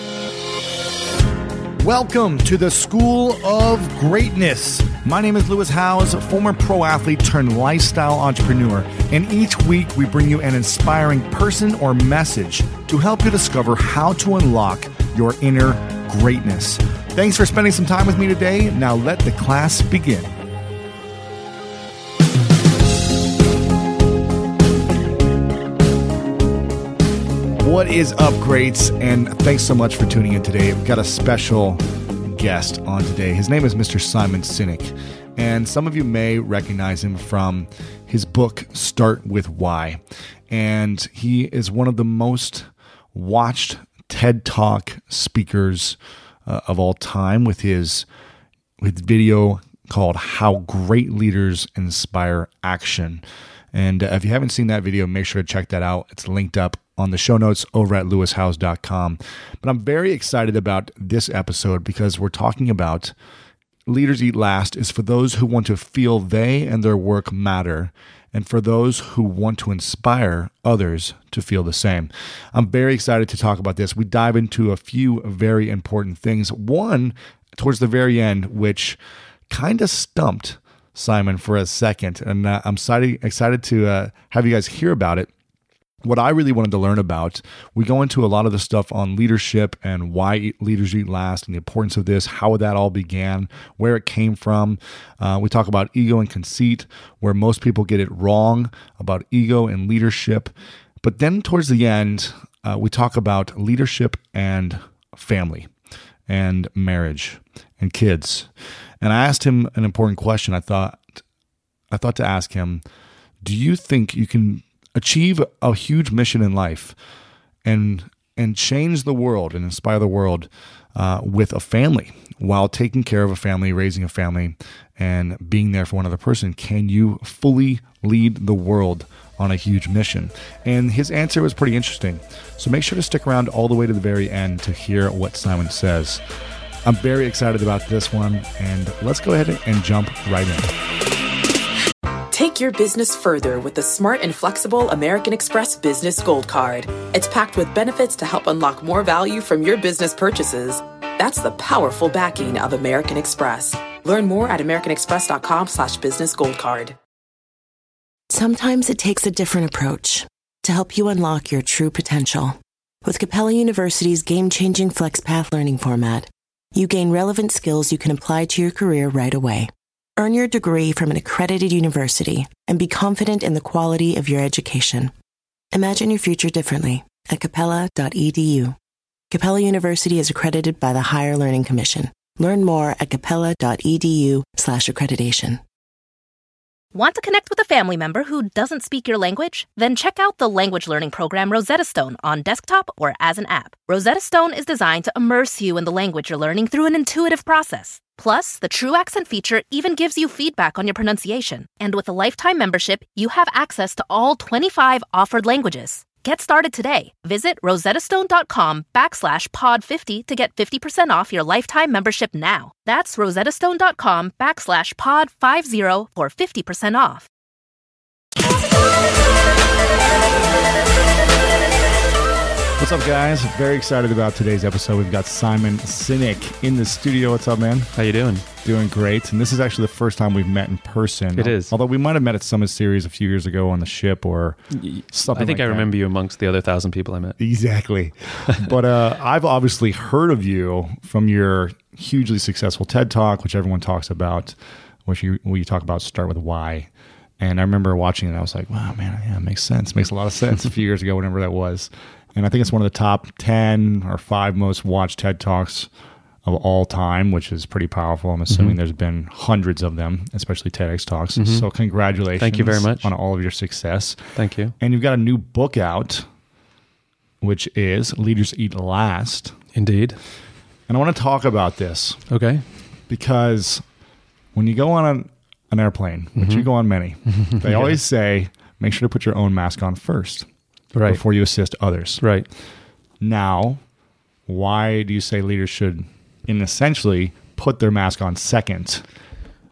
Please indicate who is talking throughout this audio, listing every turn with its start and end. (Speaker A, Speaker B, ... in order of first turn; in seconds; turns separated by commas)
Speaker A: 1.8-20.3, Speaker A: 27.6-48.1, Speaker A: 48.8-63.1, Speaker A: 63.9-79.0, Speaker A: 79.5-85.3, Speaker A: 86.0-105.7, Speaker A: 106.3-108.5, Speaker A: 109.0-111.2, Speaker A: 111.9-112.8, Speaker A: 113.4-117.0, Speaker A: 117.6-136.2, Speaker A: 136.8-140.7, Speaker B: 142.3-157.0, Speaker C: 158.3-175.1, Speaker C: 175.7-178.8, Speaker C: 179.3-185.6, Speaker D: 186.9-217.3, Speaker A: 222.8-227.9, Speaker E: 228.0-228.4, Speaker A: 228.6-235.9, Speaker E: 231.4-231.7, Speaker E: 234.7-237.4, Speaker A: 237.4-255.9, Speaker A: 256.4-264.2, Speaker E: 258.5-258.8, Speaker E: 261.4-261.7, Speaker E: 262.4-263.1, Speaker E: 264.4-264.7, Speaker A: 264.8-266.3, Speaker A: 267.4-269.6, Speaker E: 269.8-270.2, Speaker A: 270.9-272.2, Speaker E: 272.3-272.7, Speaker A: 273.1-273.9, Speaker A: 274.5-280.5, Speaker E: 276.4-276.7, Speaker E: 277.3-277.9, Speaker E: 280.9-281.2, Speaker A: 281.1-282.2, Speaker E: 282.2-282.5, Speaker A: 283.2-283.8, Speaker A: 284.5-289.1